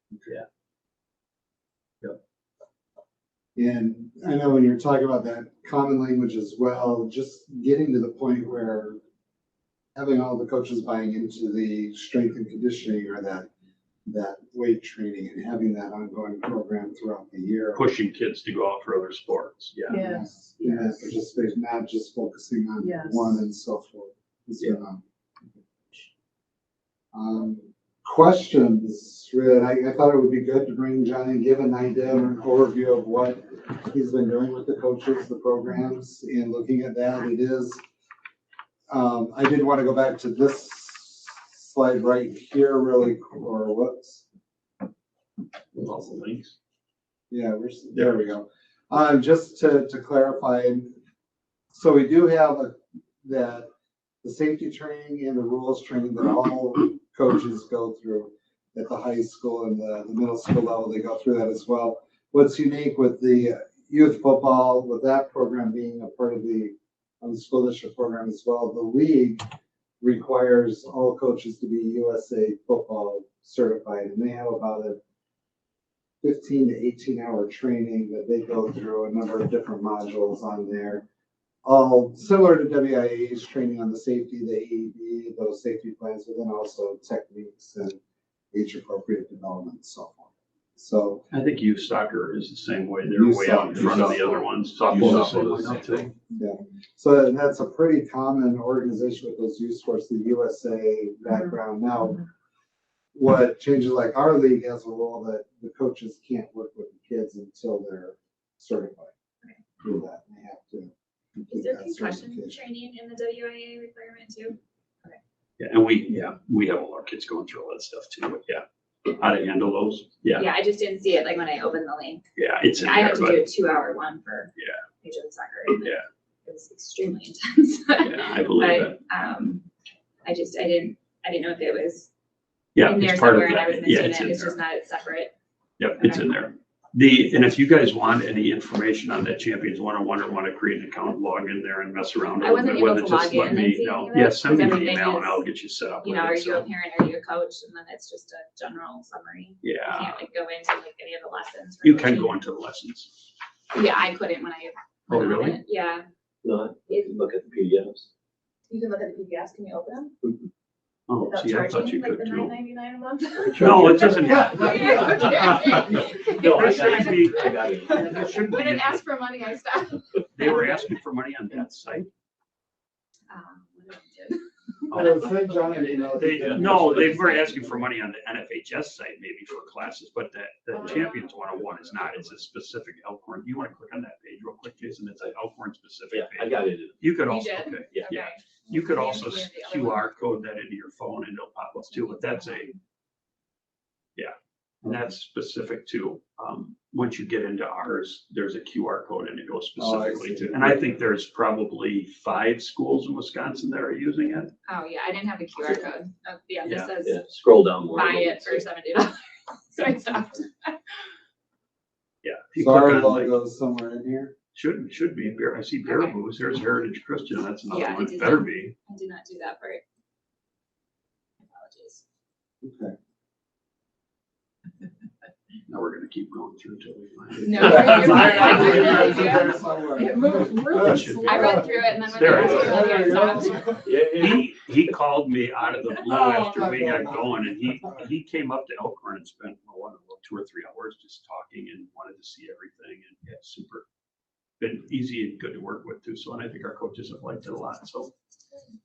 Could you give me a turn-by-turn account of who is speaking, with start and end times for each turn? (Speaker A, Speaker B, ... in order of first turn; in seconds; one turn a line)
Speaker A: 3.5-9.0
Speaker A: 9.9-13.5
Speaker A: 14.1-17.9
Speaker B: 17.7-20.0
Speaker C: 19.9-21.0
Speaker A: 19.9-25.0
Speaker C: 22.8-23.3
Speaker A: 27.1-37.8
Speaker A: 38.9-44.2
Speaker B: 45.7-46.5
Speaker A: 47.3-50.9
Speaker A: 51.7-53.7
Speaker A: 54.2-69.4
Speaker A: 70.0-75.0
Speaker A: 76.2-81.0
Speaker A: 81.6-88.0
Speaker A: 88.5-91.3
Speaker B: 91.3-96.1
Speaker A: 93.1-94.3
Speaker D: 93.8-94.2
Speaker D: 94.8-96.1
Speaker A: 95.0-102.2
Speaker A: 103.1-109.1
Speaker A: 109.8-112.6
Speaker E: 111.5-115.2
Speaker B: 115.6-120.5
Speaker E: 120.3-122.2
Speaker B: 122.4-123.4
Speaker E: 122.8-129.6
Speaker B: 128.0-129.0
Speaker E: 130.2-132.1
Speaker B: 132.7-134.6
Speaker E: 132.8-135.3
Speaker B: 135.8-146.7
Speaker E: 136.0-136.3
Speaker E: 142.4-145.4
Speaker E: 146.0-152.4
Speaker B: 149.6-150.2
Speaker B: 151.8-153.1
Speaker E: 153.7-156.1
Speaker B: 155.1-155.6
Speaker D: 156.4-158.1
Speaker C: 158.7-160.1
Speaker B: 161.1-162.6
Speaker C: 161.2-165.9
Speaker D: 163.4-168.5
Speaker B: 163.5-165.8
Speaker A: 164.4-164.7
Speaker E: 164.7-165.9
Speaker B: 166.3-169.1
Speaker C: 167.8-168.6
Speaker E: 168.5-170.0
Speaker B: 170.3-172.1
Speaker E: 173.3-174.4
Speaker B: 174.9-175.3
Speaker A: 174.9-177.9
Speaker B: 176.1-192.7
Speaker D: 176.3-177.1
Speaker C: 180.7-181.4
Speaker D: 186.1-187.1
Speaker C: 187.3-187.8
Speaker D: 187.9-188.1
Speaker E: 188.0-189.2
Speaker C: 189.3-189.7
Speaker B: 194.2-204.5
Speaker A: 199.8-200.8
Speaker E: 204.7-207.2
Speaker B: 206.6-206.9
Speaker D: 207.0-208.6
Speaker E: 207.9-210.8
Speaker B: 212.2-213.4
Speaker A: 212.6-214.3
Speaker B: 214.5-218.7
Speaker E: 215.8-216.2
Speaker E: 217.7-219.8
Speaker E: 221.4-222.0
Speaker A: 222.6-222.9
Speaker B: 225.7-229.6
Speaker A: 227.4-231.6
Speaker E: 227.4-229.7
Speaker C: 229.9-233.5
Speaker B: 230.8-231.4
Speaker E: 231.2-233.8
Speaker B: 232.1-232.9
Speaker A: 232.1-233.9
Speaker D: 233.8-234.5
Speaker B: 234.0-243.8
Speaker A: 236.1-237.6
Speaker B: 244.6-248.1